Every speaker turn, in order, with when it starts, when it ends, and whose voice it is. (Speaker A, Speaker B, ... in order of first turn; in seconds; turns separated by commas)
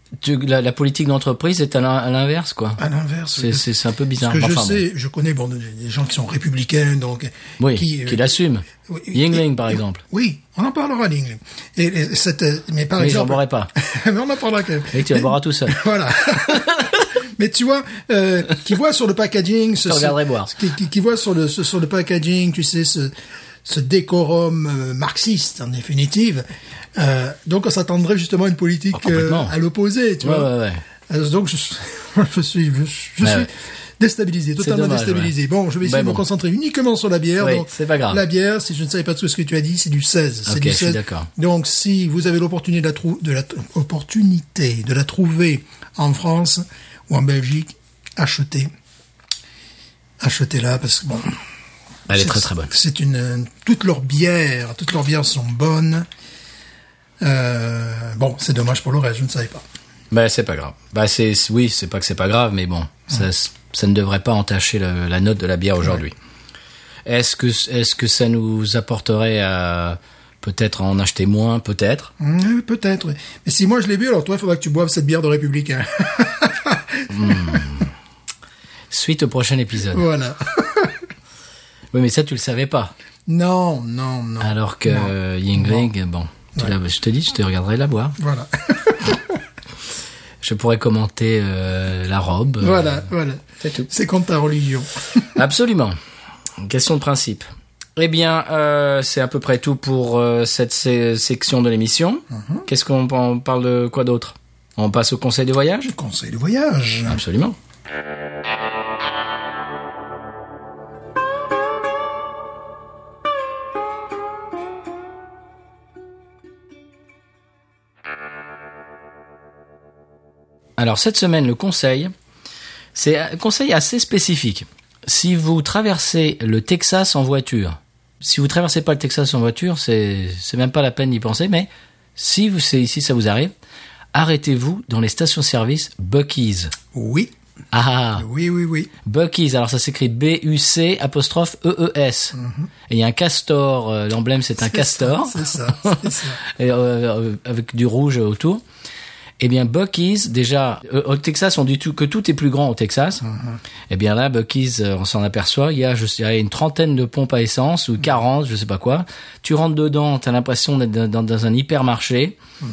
Speaker A: 0.2-2.8, Speaker B: 2.8-3.7, Speaker A: 3.3-4.8, Speaker B: 4.2-30.5, Speaker A: 7.6-10.0, Speaker A: 13.0-13.7, Speaker A: 14.9-15.8, Speaker A: 19.9-20.5, Speaker A: 28.9-29.5, Speaker A: 30.2-30.8, Speaker B: 31.1-48.7, Speaker A: 33.2-33.5, Speaker A: 34.6-36.2, Speaker A: 37.4-38.2, Speaker A: 40.5-41.3, Speaker B: 50.2-51.4, Speaker A: 52.1-52.7, Speaker B: 52.1-56.1, Speaker B: 57.2-59.6, Speaker A: 60.1-66.1, Speaker A: 67.0-72.1, Speaker B: 72.2-77.7, Speaker A: 77.1-77.9, Speaker A: 78.9-80.0, Speaker B: 79.9-81.0, Speaker A: 81.9-82.9, Speaker B: 83.3-85.9, Speaker A: 84.4-88.2, Speaker B: 88.2-89.4, Speaker A: 90.4-93.0, Speaker B: 92.6-95.3, Speaker A: 93.6-93.9, Speaker A: 95.3-96.0, Speaker A: 96.6-105.9, Speaker B: 102.3-102.7, Speaker B: 105.8-107.2, Speaker A: 107.1-107.5, Speaker A: 120.8-122.1, Speaker A: 122.9-133.5, Speaker A: 134.1-136.7, Speaker B: 136.9-137.3, Speaker A: 137.7-138.2, Speaker B: 138.2-138.9, Speaker A: 139.0-142.3, Speaker B: 142.3-142.7, Speaker A: 142.9-148.6, Speaker B: 144.6-146.4, Speaker A: 149.4-153.2, Speaker B: 153.2-153.6, Speaker A: 153.9-162.3